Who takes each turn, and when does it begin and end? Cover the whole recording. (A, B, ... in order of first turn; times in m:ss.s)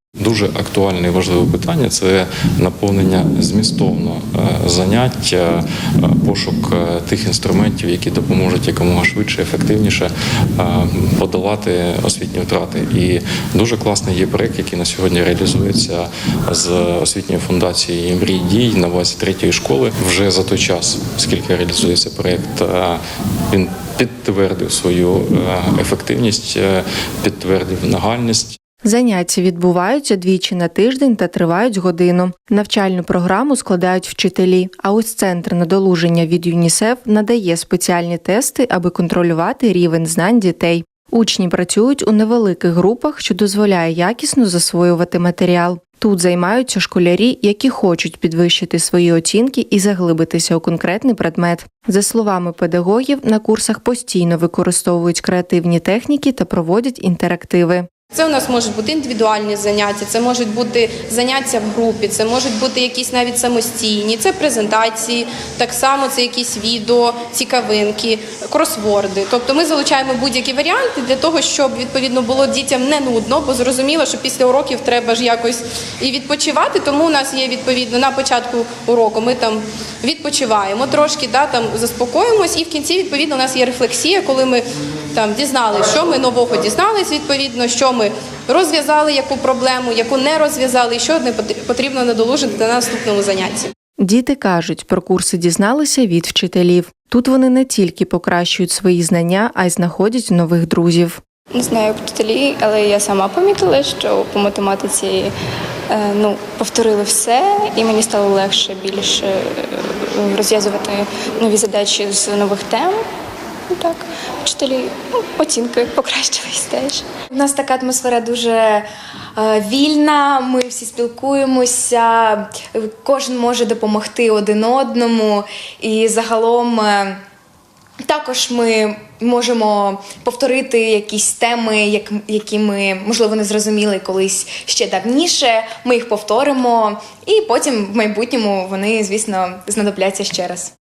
0:00.2-0:28.6 A
0:28.8-0:57.8 B
0:58.1-1:33.7 C
1:34.0-1:41.2 B
1:41.5-1:45.3 D
1:45.9-1:53.0 D
1:53.7-1:57.1 D
1:57.3-1:58.8 E
1:59.4-2:07.2 E
2:08.0-2:20.7 E